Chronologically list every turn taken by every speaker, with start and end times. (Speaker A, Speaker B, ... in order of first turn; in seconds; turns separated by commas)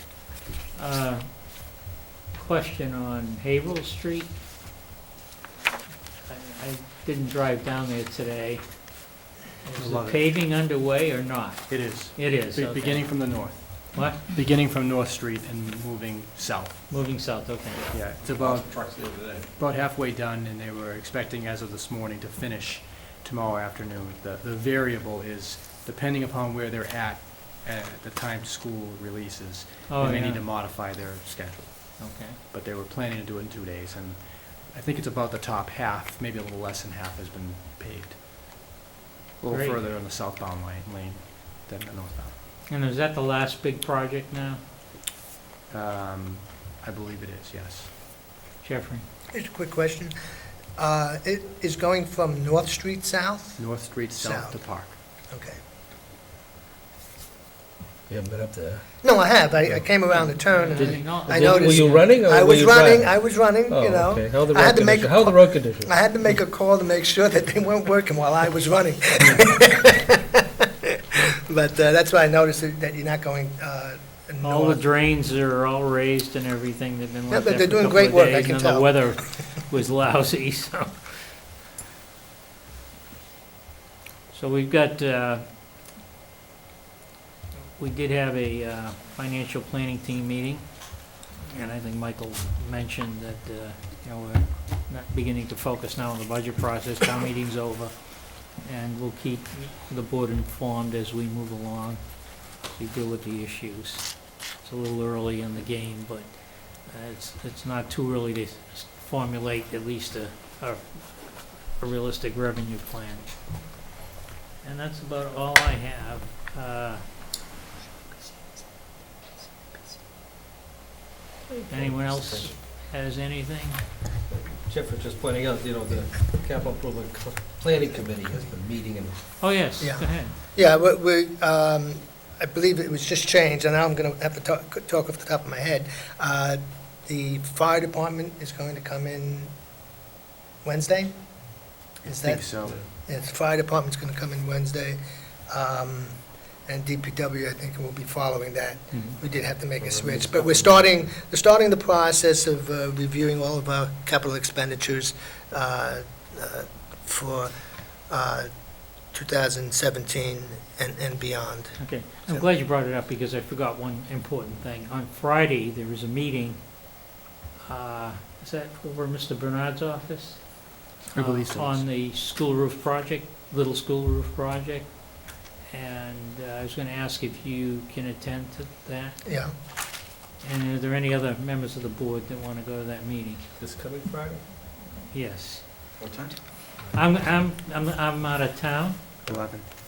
Speaker A: 0.8-1.8, Speaker A: 2.3-4.3, Speaker A: 6.2-14.2, Speaker B: 9.8-10.2, Speaker B: 11.7-16.8, Speaker A: 16.9-18.1, Speaker B: 17.9-18.9, Speaker B: 19.4-38.2, Speaker A: 29.9-30.5, Speaker A: 32.0-32.4, Speaker B: 39.4-42.3, Speaker A: 39.5-39.8, Speaker A: 42.7-44.6, Speaker B: 45.7-47.9, Speaker A: 48.6-49.0, Speaker C: 49.3-50.1, Speaker C: 50.8-55.6, Speaker B: 53.6-55.0, Speaker D: 58.1-59.9, Speaker C: 59.0-70.4, Speaker A: 60.1-62.1, Speaker D: 60.7-65.9, Speaker C: 71.5-74.8, Speaker A: 74.4-81.2, Speaker C: 77.3-79.2, Speaker A: 84.3-85.4, Speaker A: 87.8-113.3, Speaker A: 114.6-117.0, Speaker A: 121.6-123.8, Speaker D: 121.7-122.5, Speaker D: 124.3-129.2, Speaker A: 129.4-130.3, Speaker C: 129.8-139.6, Speaker C: 140.6-157.5, Speaker B: 142.2-142.8, Speaker A: 148.9-149.2, Speaker D: 149.8-150.9, Speaker C: 158.1-162.4, Speaker A: 161.8-167.1, Speaker A: 167.7-179.3, Speaker B: 171.1-171.8, Speaker C: 179.2-179.5, Speaker A: 180.4-183.5, Speaker D: 183.6-184.5, Speaker A: 185.1-186.0, Speaker D: 186.1-187.0, Speaker A: 186.8-189.2, Speaker B: 189.3-189.7